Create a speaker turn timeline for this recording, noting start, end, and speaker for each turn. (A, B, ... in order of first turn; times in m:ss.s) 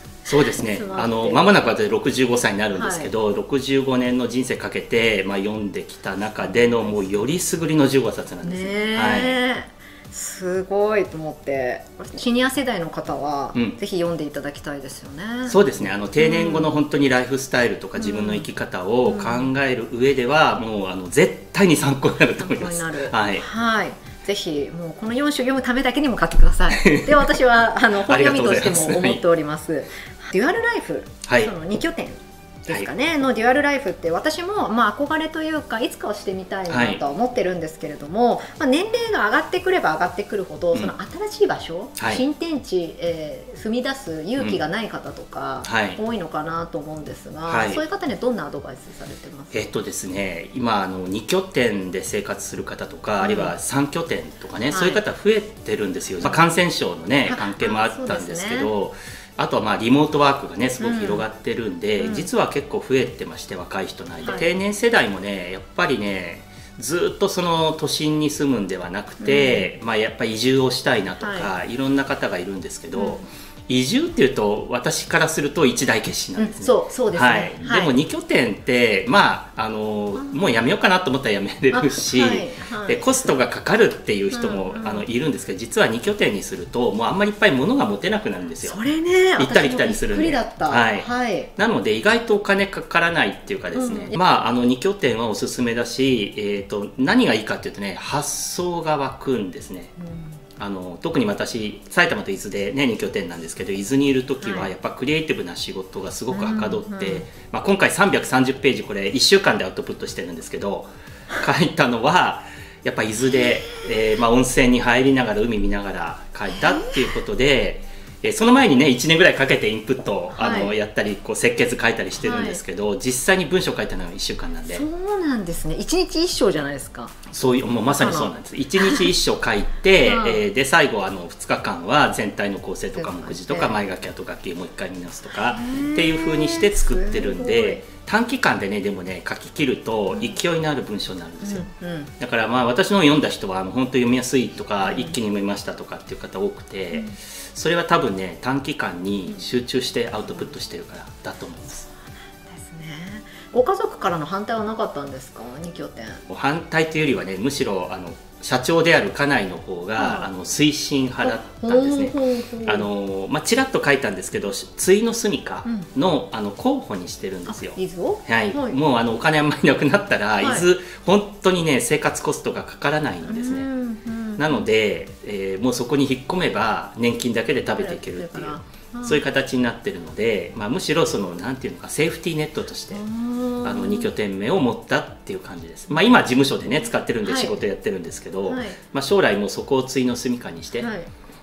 0:00.3-0:09.4 A
0:00.5-0:01.4 B
0:02.7-0:03.1 B
0:06.4-0:07.2 B
0:08.4-0:15.7 B
0:15.5-0:23.4 A
0:16.2-0:16.8 B
0:18.0-0:18.5 B
0:19.0-0:19.5 B
0:22.4-0:49.7 B
0:26.7-0:27.4 A
0:28.0-0:29.2 A
0:31.2-0:31.5 A
0:36.7-0:37.0 A
0:45.6-0:46.0 A
0:47.5-0:47.8 A
0:49.5-1:28.8 A
0:53.2-0:53.5 B
0:54.7-0:55.0 B
0:57.3-0:58.7 B
1:00.8-1:01.2 B
1:02.0-1:02.3 B
1:04.2-1:04.5 B
1:09.2-1:09.7 B
1:11.2-1:11.5 B
1:13.0-1:13.3 B
1:16.4-1:17.9 B
1:20.2-1:20.6 B
1:21.7-1:23.1 B
1:24.3-1:25.1 B
1:28.6-1:31.5 B
1:29.4-1:39.9 A
1:33.7-1:34.2 B
1:40.0-1:40.3 B
1:40.6-2:04.8 A
1:44.4-1:44.7 B
1:46.3-1:47.3 B
1:53.4-1:53.8 B
1:56.5-1:57.2 B
2:00.3-2:00.7 B
2:02.2-2:02.6 B
2:04.7-2:07.2 B
2:07.3-2:21.7 A
2:07.9-2:09.1 B
2:10.0-2:10.4 B
2:13.0-2:13.8 B
2:15.4-2:17.9 B
2:20.1-2:20.4 B
2:21.4-2:22.1 B
2:22.2-2:31.9 A
2:24.8-2:25.2 B
2:30.2-2:30.5 B
2:32.5-2:36.2 B
2:36.3-2:53.7 A
2:40.0-2:40.3 B
2:41.2-2:42.9 B
2:47.5-2:48.8 B
2:50.4-2:50.7 B
2:53.2-2:54.7 B
2:54.4-3:03.0 A
2:57.6-2:59.2 B
3:02.9-3:04.1 B
3:03.6-3:10.9 A
3:05.9-3:06.2 B
3:07.2-3:07.6 B
3:08.5-3:08.8 B
3:10.8-3:11.1 B